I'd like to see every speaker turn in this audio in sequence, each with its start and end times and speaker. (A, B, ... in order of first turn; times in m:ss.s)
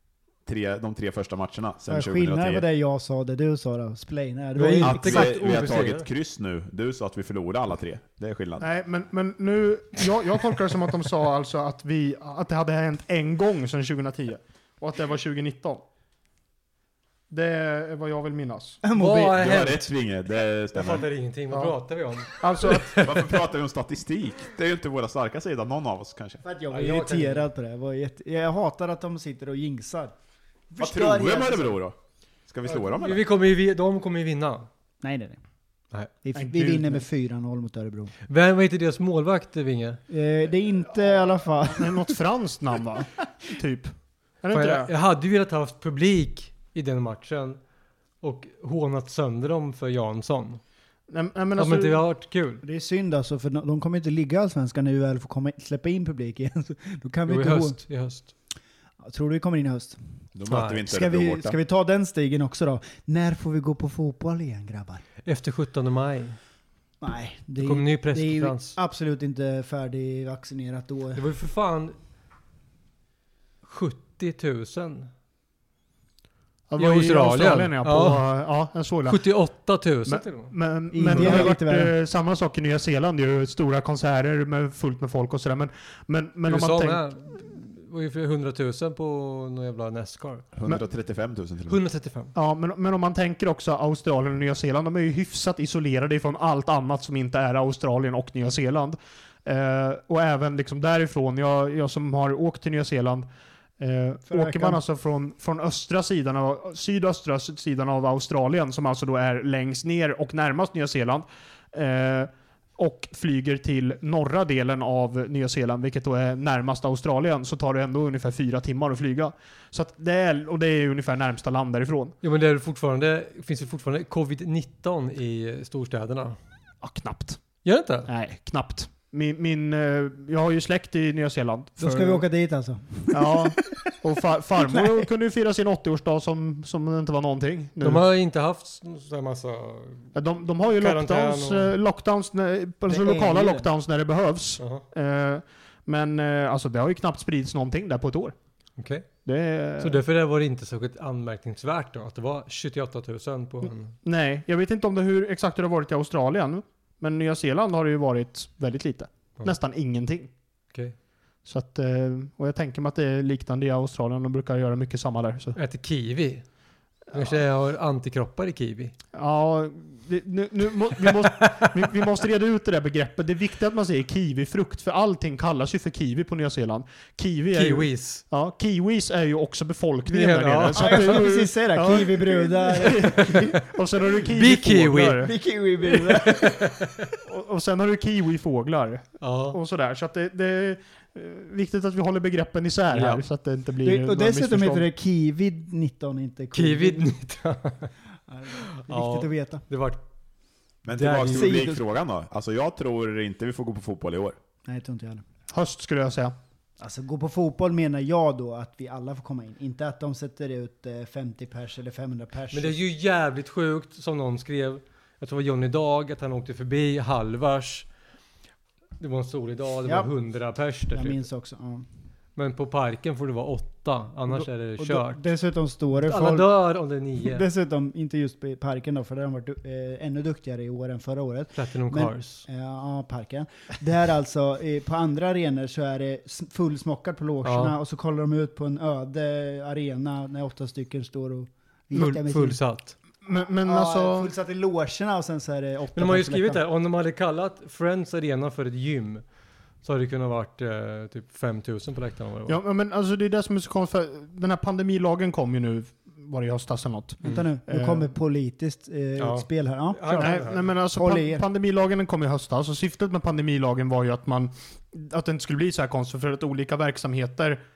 0:00.5-0:02.6 A
0:01.9-0:05.8 B
0:04.6-0:06.1 C
0:04.8-0:08.7 A
0:08.6-0:15.8 D
0:17.3-0:18.8 D
0:18.8-0:19.6 B
0:19.0-0:19.9 C
0:19.3-0:21.1 A
0:20.7-0:23.1 C
0:22.3-0:23.3 D
0:23.0-0:26.4 A
0:26.4-0:30.1 B
0:26.7-0:27.4 C
0:30.7-0:31.8 B
0:30.8-0:32.0 A
0:32.5-0:33.2 A
0:32.7-0:34.7 C
0:35.0-0:35.4 B
0:36.2-0:38.1 B
0:36.4-0:37.0 D
0:38.3-0:40.0 C
0:40.1-0:42.2 B
0:41.7-0:44.9 D
0:44.5-0:47.6 C
0:48.2-0:50.6 C
0:51.1-0:52.0 D
0:51.6-0:52.6 C
0:52.6-0:57.8 B
0:57.3-0:58.3 C
0:59.0-1:00.0 B
1:00.4-1:01.6 A
1:00.5-1:00.8 C
1:00.8-1:05.0 B
1:05.2-1:06.4 C
1:07.0-1:11.2 B
1:07.6-1:08.8 C
1:11.2-1:12.0 C
1:13.6-1:15.1 C
1:16.7-1:19.2 D
1:16.8-1:18.2 C
1:19.1-1:20.5 C
1:20.1-1:27.0 D
1:20.9-1:21.9 B
1:26.5-1:30.5 C
1:30.6-1:31.8 A
1:31.7-1:32.3 C
1:32.4-1:43.3 D
1:43.8-2:02.2 D
1:44.3-1:44.8 B
2:02.2-2:06.4 C
2:06.8-2:07.4 D
2:07.6-2:08.1 C
2:08.1-2:12.2 D
2:11.8-2:13.9 B
2:13.1-2:18.0 D
2:14.6-2:15.1 B
2:17.8-2:21.8 C
2:20.1-2:28.4 D
2:22.9-2:23.7 B
2:24.6-2:24.8 C
2:28.8-2:29.1 C
2:29.2-2:30.0 D
2:29.8-2:33.9 C
2:34.0-2:40.3 D
2:41.5-2:45.6 D
2:45.6-2:46.4 C
2:47.1-2:47.4 D
2:47.1-2:48.9 C
2:49.1-3:05.3 D
2:51.2-2:51.7 C
2:57.5-2:58.2 C
3:00.1-3:01.2 C
3:00.8-3:03.5 B
3:04.3-3:05.3 C
3:05.2-3:06.6 B
3:05.9-3:07.1 C
3:07.2-3:14.9 D
3:09.2-3:09.6 C
3:12.9-3:13.2 C
3:13.8-3:17.2 B
3:16.5-3:17.9 C
3:18.3-3:19.6 B
3:18.5-3:20.0 C
3:20.8-3:24.4 A
3:20.9-3:21.7 C
3:21.3-3:21.8 B
3:24.7-3:25.2 B
3:25.5-3:26.4 D
3:26.8-3:32.8 B
3:32.5-3:37.9 C
3:39.0-3:41.2 C
3:39.8-3:40.1 B
3:40.9-3:41.9 B
3:42.4-3:45.2 C
3:44.3-3:46.5 B
3:46.0-3:47.4 C
3:47.2-4:02.6 B
3:51.6-3:52.5 C
3:57.4-3:57.8 C
4:01.9-4:03.0 C
4:03.2-4:04.3 D
4:03.6-4:06.6 B
4:06.0-4:09.2 C
4:09.8-4:12.6 C
4:12.5-4:18.1 D
4:17.2-4:21.4 B
4:19.2-4:20.6 C
4:20.2-4:27.6 D